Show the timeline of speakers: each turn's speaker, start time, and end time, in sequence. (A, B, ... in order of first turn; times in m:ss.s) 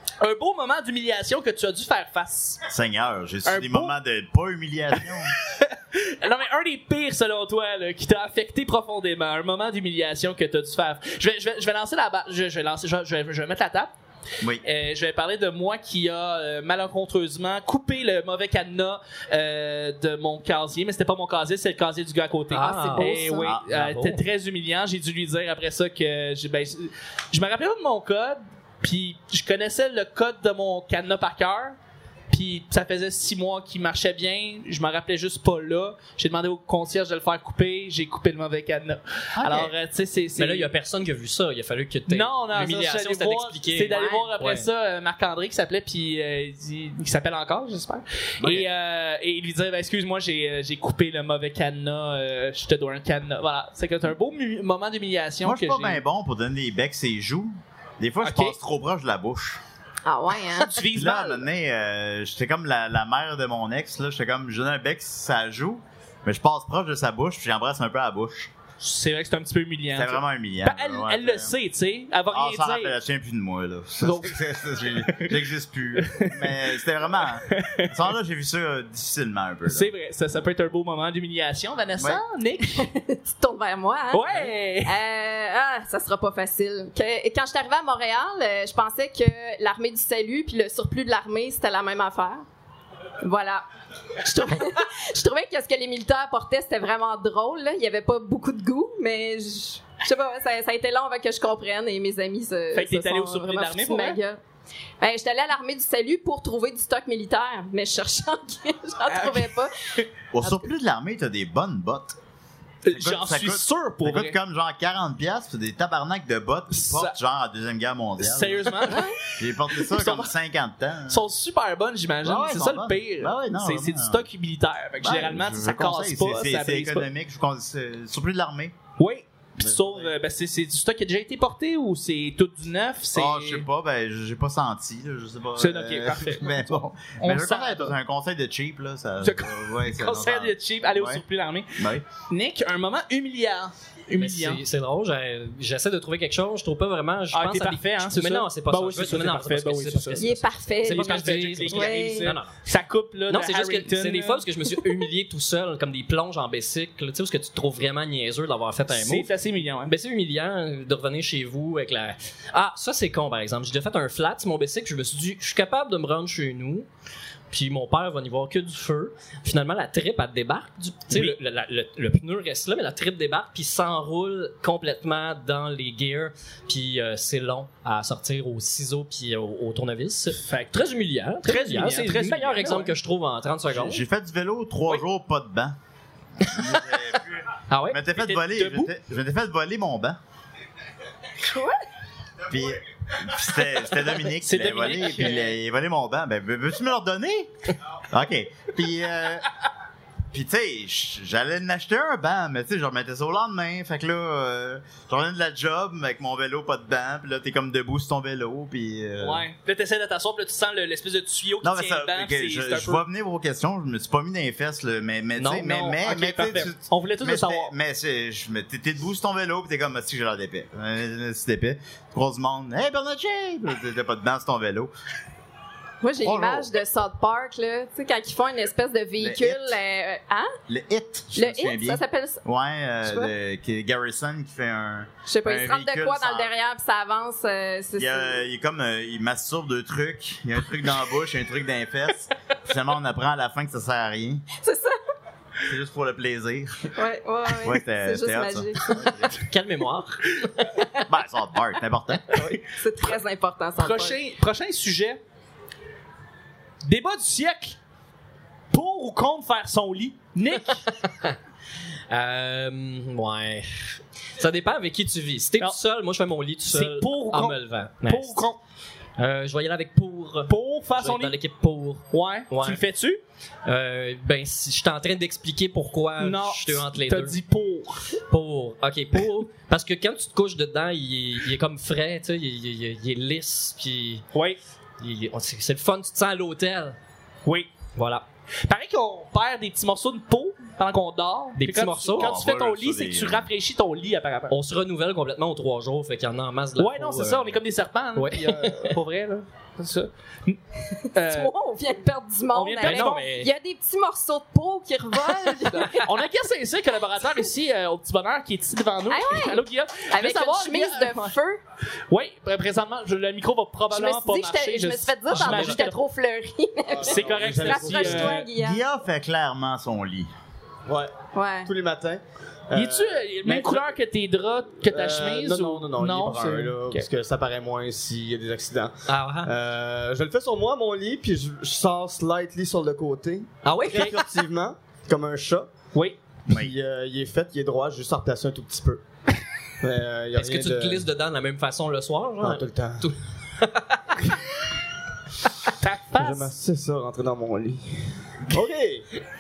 0:00.2-0:02.6 A
0:02.7-0:05.3 B
0:03.5-0:04.0 A
0:05.6-0:13.9 A
0:14.6-0:31.8 A
0:22.5-0:24.2 C
0:22.5-0:23.5 D
0:23.4-0:23.7 B
0:32.3-0:40.7 A
0:39.4-0:39.7 B
0:40.4-0:44.7 C
0:42.1-0:56.0 A
0:48.4-0:48.7 B
0:55.4-0:59.6 B
0:58.2-0:58.6 A
1:00.0-1:00.8 D
1:00.6-1:01.4 A
1:00.8-1:08.5 B
1:08.8-1:12.9 A
1:09.9-1:11.5 B
1:12.3-1:19.9 B
1:14.0-1:14.4 A
1:16.0-1:16.7 A
1:17.5-1:18.0 A
1:19.7-1:22.8 A
1:22.8-1:32.4 D
1:24.1-1:25.0 A
1:33.2-1:33.6 D
1:34.2-1:44.4 D
1:42.7-1:44.2 A
1:45.0-1:49.7 D
1:49.1-1:49.5 A
1:50.3-1:52.2 B
1:50.4-1:50.7 D
1:52.8-1:54.4 A
1:52.9-2:01.2 B
1:56.7-1:57.2 A
1:58.2-1:59.1 A
1:58.9-1:59.2 D
1:59.7-2:00.3 A
2:01.1-2:07.1 A
2:02.2-2:04.2 B
2:05.0-2:08.8 B
2:09.0-2:13.6 A
2:09.7-2:10.1 B
2:13.1-2:21.2 B
2:15.6-2:18.0 A
2:19.2-2:24.6 A
2:21.8-2:22.0 B
2:24.2-2:32.5 C
2:27.3-2:30.2 A
2:30.2-2:32.3 D
2:30.8-2:34.5 A
2:33.3-2:39.3 C
2:38.9-2:39.9 A
2:39.9-2:46.9 C
2:47.5-3:04.0 C
2:51.1-2:51.4 A
3:00.3-3:00.8 A
3:01.4-3:02.9 A
3:03.7-3:05.8 B
3:06.4-3:10.2 B
3:06.4-3:06.8 C
3:07.7-3:08.0 C
3:08.1-3:08.9 A
3:11.4-3:11.8 D
3:12.5-3:17.5 B
3:14.4-3:15.6 A
3:18.0-3:19.5 B
3:20.3-3:29.5 B
3:29.2-3:33.0 A
3:31.6-3:44.9 B
3:35.4-3:37.7 A
3:46.0-3:50.5 D
3:46.2-3:46.7 B
3:49.2-3:49.8 B
3:50.7-3:56.5 B
3:51.3-3:52.4 D
3:53.0-3:53.3 D
3:55.3-3:58.4 D
3:58.0-4:04.4 B
4:04.6-4:05.0 D
4:05.6-4:06.9 B
4:07.0-4:08.9 D
4:07.6-4:09.4 B
4:09.4-4:10.5 C
4:11.1-4:12.3 B
4:12.6-4:14.2 D
4:13.8-4:15.2 A
4:16.8-4:17.8 A
4:18.7-4:20.9 A
4:21.0-4:21.4 C
4:22.1-4:28.5 C
4:26.7-4:28.6 A
4:29.2-4:32.8 C
4:30.5-4:31.4 A
4:32.1-4:33.2 A
4:33.7-4:37.4 C
4:36.2-4:38.1 A
4:38.3-4:44.2 C
4:44.3-4:44.6 A
4:45.0-4:47.0 C
4:47.4-4:47.7 A
4:48.0-4:48.2 C
4:48.6-4:54.5 A
4:51.6-4:52.4 C
4:52.2-4:53.5 B
4:54.5-4:57.6 C
4:56.8-5:00.6 A
4:58.2-4:59.0 C
5:01.1-5:01.5 A
5:01.2-5:06.0 D
5:02.5-5:03.3 A
5:02.8-5:03.5 C
5:05.7-5:11.4 A
5:09.1-5:11.6 D
5:12.1-5:16.0 A
5:13.9-5:18.8 D
5:15.3-5:15.8 C
5:17.0-5:18.4 E
5:17.1-5:18.5 A
5:18.5-5:20.3 B
5:20.9-5:21.1 E
5:21.3-5:21.7 D
5:21.6-5:23.9 E
5:22.7-5:27.1 A
5:24.8-5:35.7 E
5:29.1-5:29.5 C
5:33.6-5:34.3 C
5:36.5-5:39.0 E
5:39.8-5:41.1 E
5:40.4-5:44.2 C
5:42.4-5:43.1 E
5:45.8-5:46.5 A
5:46.2-5:49.1 E